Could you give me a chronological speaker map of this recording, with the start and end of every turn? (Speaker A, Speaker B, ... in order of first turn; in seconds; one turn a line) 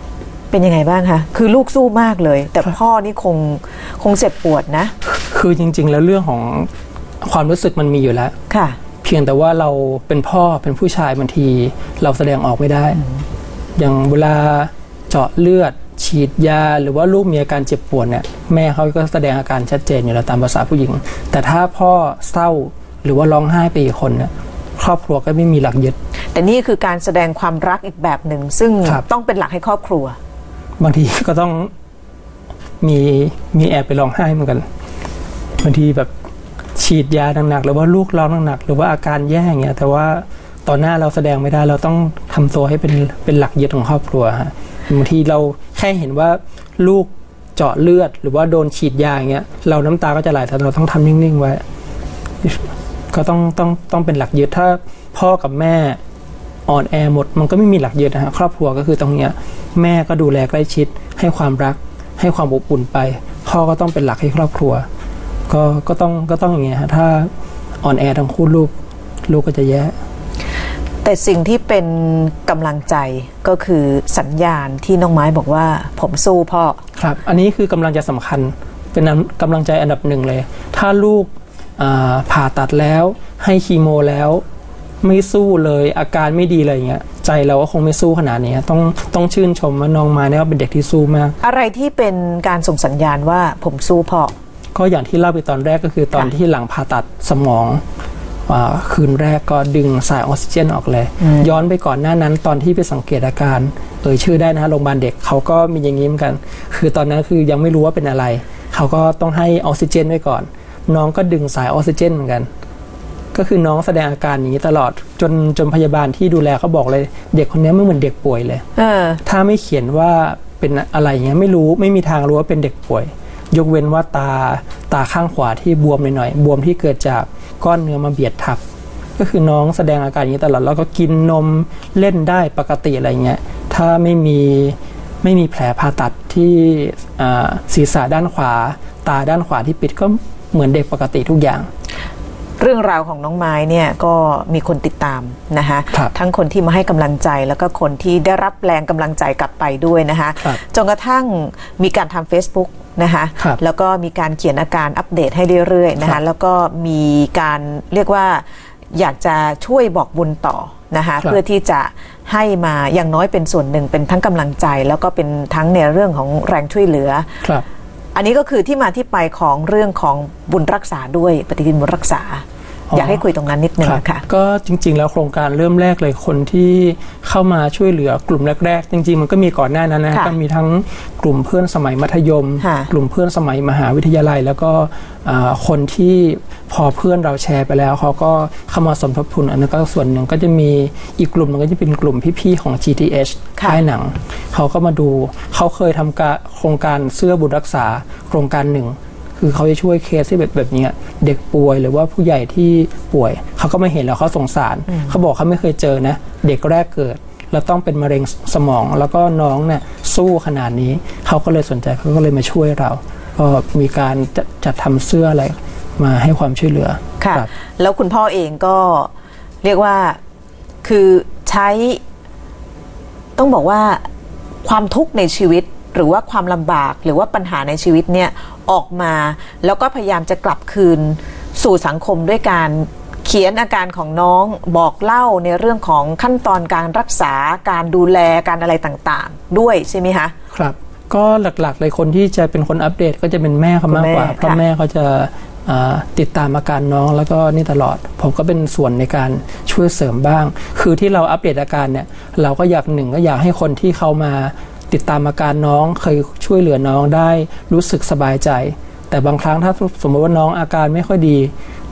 Speaker A: 0.5-4.9
Speaker B: 5.2-6.7
Speaker B: 7.2-8.3
Speaker A: 8.5-8.8
Speaker B: 9.0-13.0
Speaker B: 13.8-25.9
Speaker A: 26.3-30.2
Speaker B: 30.8-31.7
Speaker B: 32.8-34.6
Speaker B: 35.6-36.1
Speaker B: 36.8-51.6
Speaker B: 52.4-56.0
Speaker B: 56.7-64.8
Speaker B: 65.5-67.3
Speaker B: 67.8-68.7
Speaker B: 69.3-69.9
Speaker A: 71.0-76.8
Speaker B: 77.0-84.4
Speaker B: 85.0-91.3
Speaker A: 91.4-94.3
Speaker B: 94.7-97.8
Speaker B: 98.5-112.5
Speaker A: 101.2-101.5
Speaker B: 113.3-118.6
Speaker A: 118.8-119.2
Speaker B: 119.2-128.6
Speaker B: 129.2-141.7
Speaker A: 142.6-167.4
Speaker A: 168.1-174.2
Speaker B: 172.9-173.2
Speaker B: 173.8-217.5
Speaker A: 182.6-182.9
Speaker A: 217.2-219.1
Speaker A: 219.6-220.2
Speaker A: 220.8-222.0
Speaker A: 223.4-224.1
Speaker A: 224.6-240.3
Speaker B: 240.5-261.5
Speaker A: 243.9-244.6